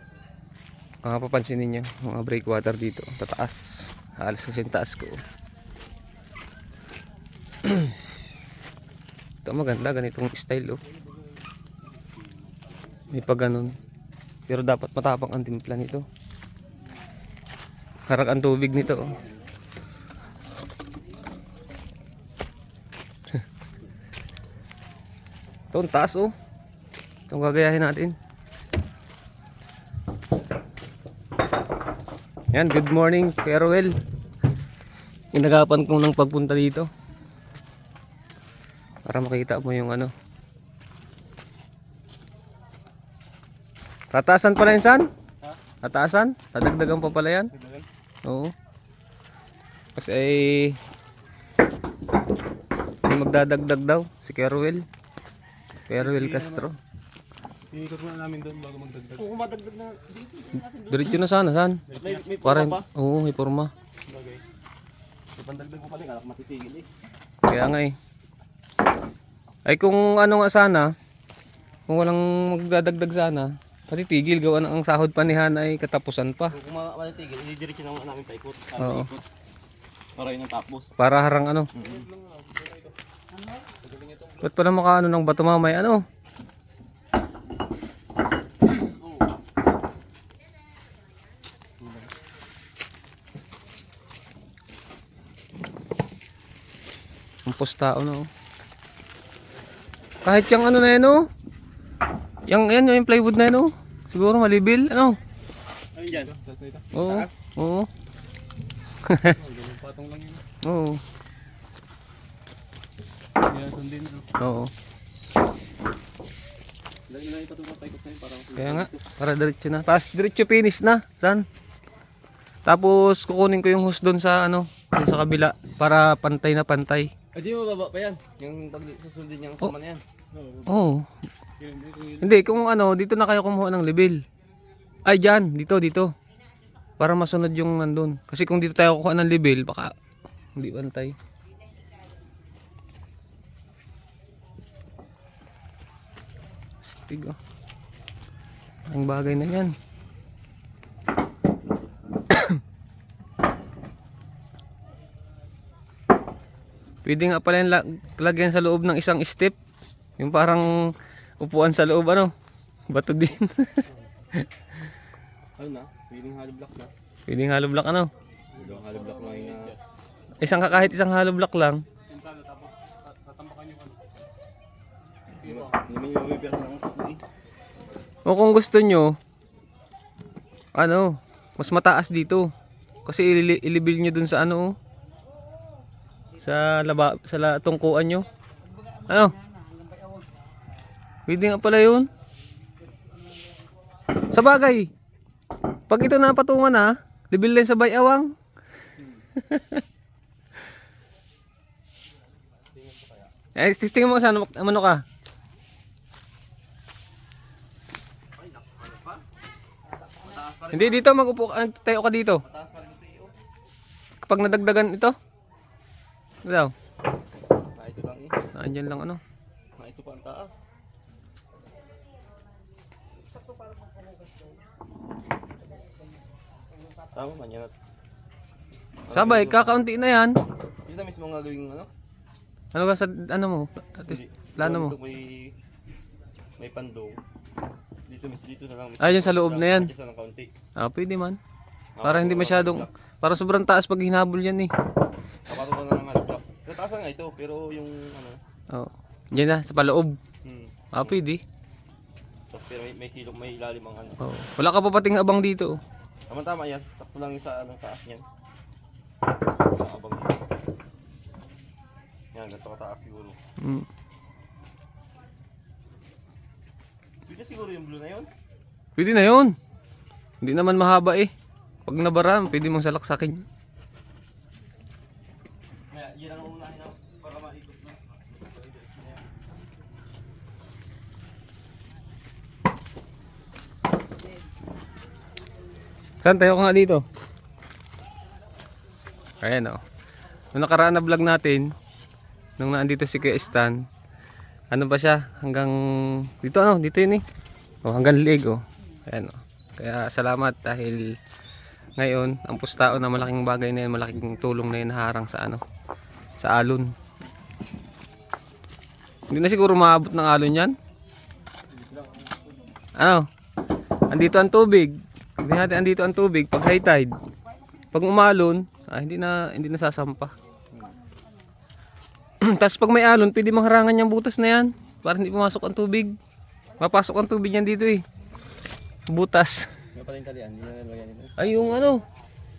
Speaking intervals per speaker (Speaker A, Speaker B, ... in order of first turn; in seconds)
Speaker A: 1.0-5.2, 9.4-10.8, 13.1-13.8, 14.5-16.0, 18.1-19.2, 25.7-26.3, 27.3-28.1, 32.5-33.9, 35.3-36.9, 39.1-40.1, 44.1-45.1, 45.8-47.5, 48.2-48.5, 50.0-50.8, 53.0-54.8, 55.9-56.8, 60.9-61.8, 62.4-63.7, 67.4-68.0, 69.7-70.9, 71.9-76.5, 78.8-79.1, 81.0-81.7, 84.4-86.0, 97.5-98.3, 100.2-101.2, 102.5-105.2, 106.9-107.9, 109.1-109.3, 110.6-111.0, 114.4-114.7, 118.5-121.5, 122.7-127.1, 130.7-131.1, 132.2-134.2, 135.1-136.1, 137.0-139.9, 140.6-141.1, 146.8-147.3, 148.9-149.7, 152.3-152.6, 157.0-159.6, 160.2-160.7, 161.4-162.3, 162.9-163.8, 167.3-168.1, 170.4-171.8, 178.2-179.1, 180.8-182.5, 183.1-184.7, 186.4-188.2, 189.0-189.4, 191.3-192.1, 194.3-194.9, 195.9-198.3, 199.4-199.8, 203.6-205.0, 210.7-212.4, 214.2-215.1, 216.4-216.7, 218.5-219.2, 229.1-230.3, 232.7-234.9, 239.0-239.9, 240.8-241.4, 242.0-244.7, 248.7-250.2, 250.9-251.4, 254.2-255.8, 263.6-263.9, 269.0-269.5, 270.4-271.3, 271.9-273.4, 286.2-287.0, 289.4-289.8, 290.5-291.6, 292.6-293.8, 294.7-295.7, 296.4-297.2, 297.8-301.0, 302.0-305.6, 306.4-306.9, 309.3-310.7, 313.0-313.2, 314.1-314.9, 315.4-317.1, 317.9-320.3, 322.4-326.1, 326.8-328.0, 329.1-329.6, 331.4-332.0
Speaker B: 11.9-13.7, 47.5-47.9, 59.2-61.2, 61.9-62.9, 65.3-66.9, 76.5-79.2, 80.2-80.9, 81.7-82.0, 106.0-106.3, 107.0-107.3, 117.1-119.0, 127.3-130.0, 165.6-166.9, 168.6-169.7, 175.4-177.2, 202.7-203.3, 208.4-209.2, 210.2-211.0, 212.4-213.3, 217.7-218.4, 219.8-220.6, 227.1-227.7, 229.1-229.8, 230.8-231.9, 234.0-235.5, 236.6-237.2, 238.1-240.5, 242.0-242.9, 245.5-248.4, 250.4-251.2, 252.5-254.2, 256.3-258.2, 259.7-260.4, 262.3-263.4, 267.2-268.3, 275.9-279.2, 329.9-331.9
Speaker C: 56.0-56.7, 57.7-59.3, 61.9-62.4, 64.1-64.4, 81.8-82.9, 83.7-84.4, 106.1-106.9, 109.3-110.4, 113.4-114.3, 130.3-130.7, 131.6-132.4, 168.5-169.8, 172.1-174.0, 175.3-175.8, 311.7-312.4